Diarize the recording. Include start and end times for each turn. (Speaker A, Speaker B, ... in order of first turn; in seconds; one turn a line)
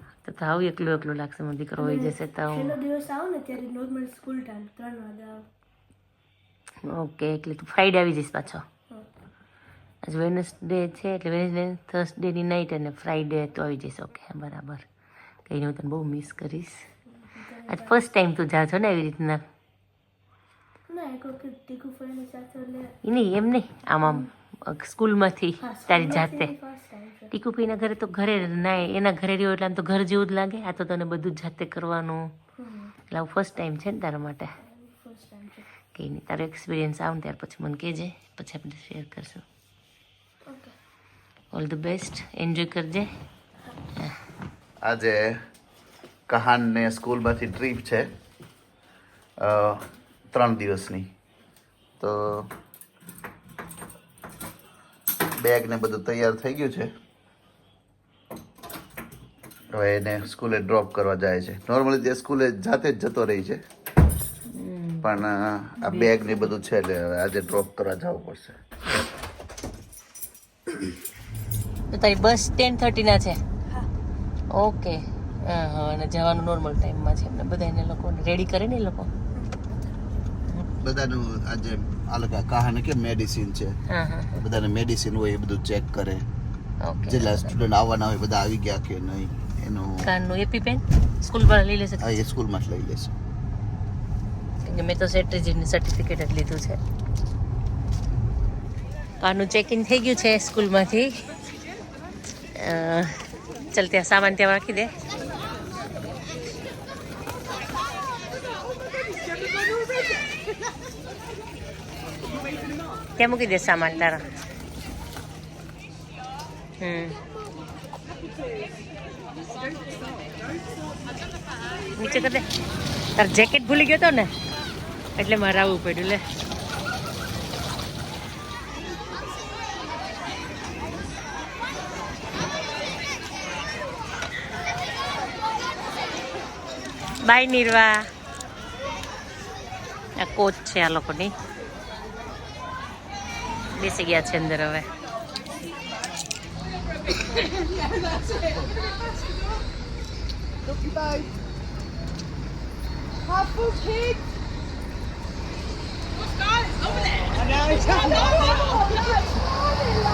Speaker A: 0.2-2.8
Speaker B: 1.8-5.5
Speaker A: 6.8-8.6
Speaker A: 10.0-14.8
Speaker A: 15.4-16.9
Speaker B: 17.2-18.0
Speaker A: 17.6-19.4
Speaker B: 20.9-22.9
Speaker A: 23.0-26.5
Speaker B: 24.0-24.3
Speaker B: 25.6-27.3
Speaker A: 27.3-32.2
Speaker B: 32.6-32.9
Speaker A: 33.1-34.5
Speaker B: 34.6-35.7
Speaker A: 35.9-39.4
Speaker B: 40.5-40.8
Speaker A: 41.5-43.1
Speaker C: 44.8-45.4
Speaker C: 46.3-48.1
Speaker C: 49.4-51.1
Speaker C: 52.0-52.5
Speaker C: 55.4-56.9
Speaker C: 59.7-63.6
Speaker A: 64.5-65.1
Speaker C: 65.0-68.6
Speaker A: 65.8-66.5
Speaker A: 71.9-73.4
Speaker A: 74.5-79.1
Speaker B: 79.3-80.2
Speaker C: 80.8-83.7
Speaker A: 83.9-84.3
Speaker C: 84.3-86.2
Speaker A: 86.8-87.5
Speaker C: 87.1-90.0
Speaker A: 90.0-92.2
Speaker C: 92.0-93.1
Speaker A: 94.6-96.8
Speaker A: 99.2-101.2
Speaker A: 102.5-104.9
Speaker A: 113.2-114.3
Speaker A: 116.8-117.2
Speaker A: 122.0-122.5
Speaker A: 123.2-124.3
Speaker A: 125.2-126.2
Speaker A: 137.2-138.1
Speaker A: 140.2-141.3
Speaker A: 143.7-144.9
Speaker B: 157.8-159.1